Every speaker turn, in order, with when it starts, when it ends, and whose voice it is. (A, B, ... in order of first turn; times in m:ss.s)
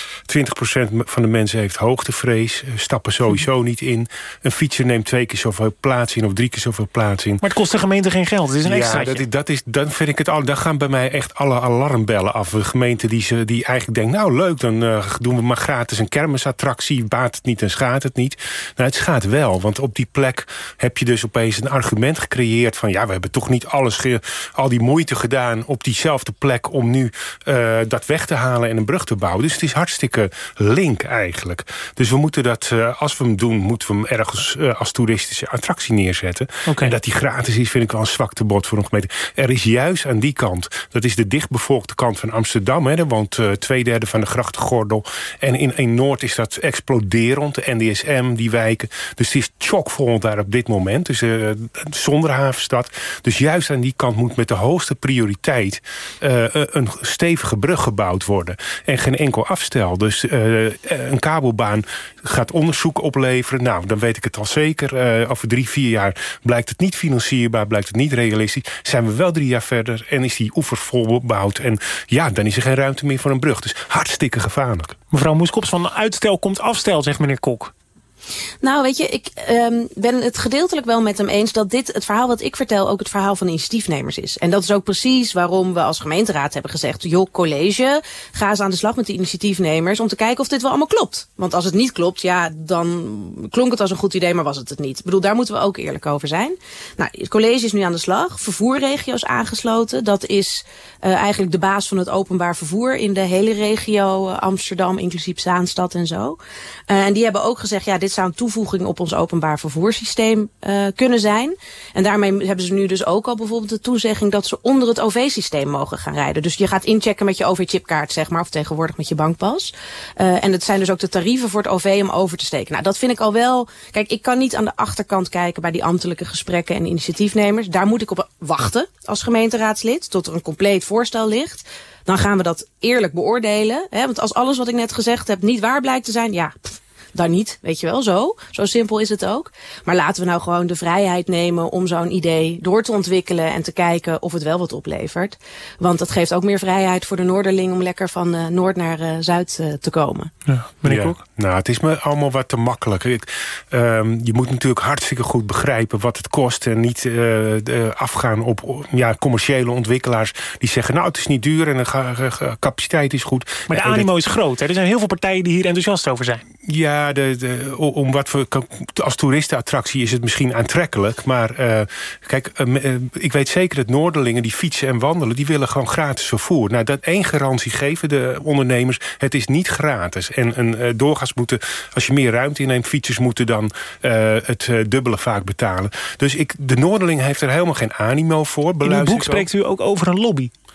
0:00.3-0:07.4 A
0:07.4-0:09.2 B
0:08.6-1:15.0 A
0:36.7-0:36.9 B
1:15.1-1:17.7 B
1:18.6-2:30.3 C
2:30.5-2:31.2 B
2:30.8-2:44.0 A
2:43.7-2:46.4 B
2:46.6-3:09.5 A
3:08.8-3:10.5 B